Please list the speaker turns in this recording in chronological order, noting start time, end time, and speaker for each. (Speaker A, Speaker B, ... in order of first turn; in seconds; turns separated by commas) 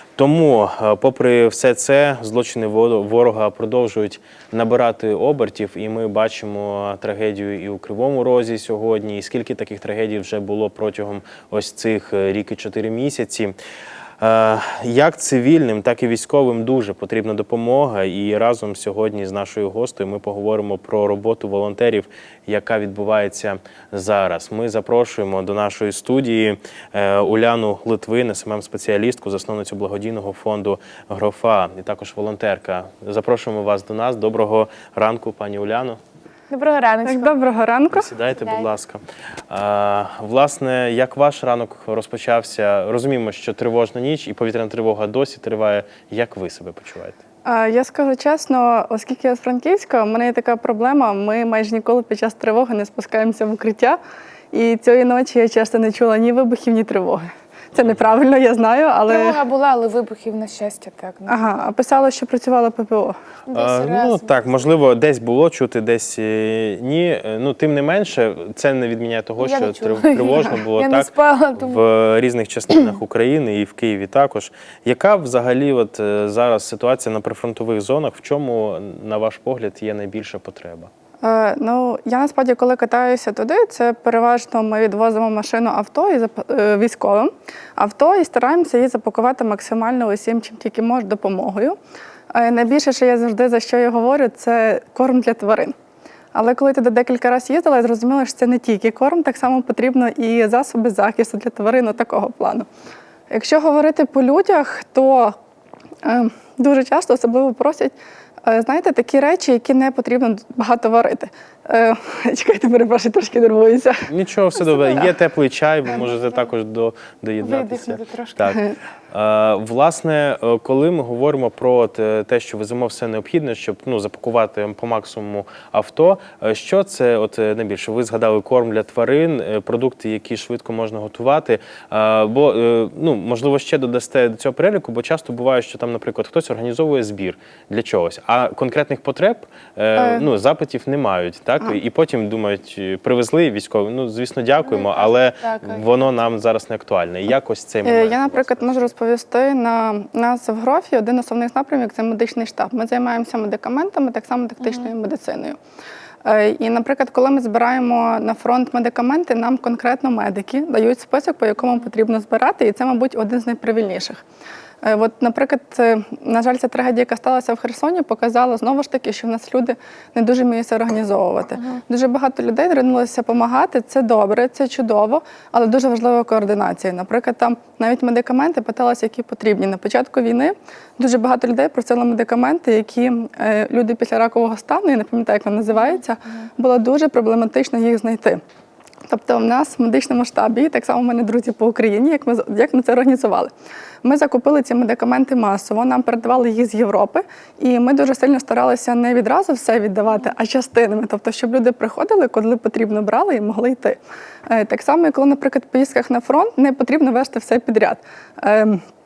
Speaker A: 0.1-13.5, Speaker A: 14.2-36.0, Speaker B: 36.5-37.4, Speaker C: 37.0-38.1, Speaker A: 37.9-47.2, Speaker B: 38.4-38.6, Speaker C: 47.4-54.0, Speaker C: 54.5-59.4, Speaker B: 59.1-61.5, Speaker C: 61.3-63.2, Speaker B: 63.5-64.7, Speaker A: 63.5-80.9, Speaker B: 69.4-71.8, Speaker C: 81.2-91.8, Speaker C: 92.3-95.7, Speaker C: 96.3-102.7, Speaker C: 103.3-105.3, Speaker C: 106.0-114.1, Speaker A: 114.1-148.9, Speaker B: 115.8-116.5, Speaker B: 117.4-118.6, Speaker C: 139.9-140.2, Speaker B: 144.6-146.2, Speaker C: 147.8-155.6, Speaker B: 154.6-154.9, Speaker C: 156.2-164.2, Speaker C: 164.8-188.4, Speaker B: 185.7-186.5, Speaker C: 189.1-193.5, Speaker C: 194.0-208.8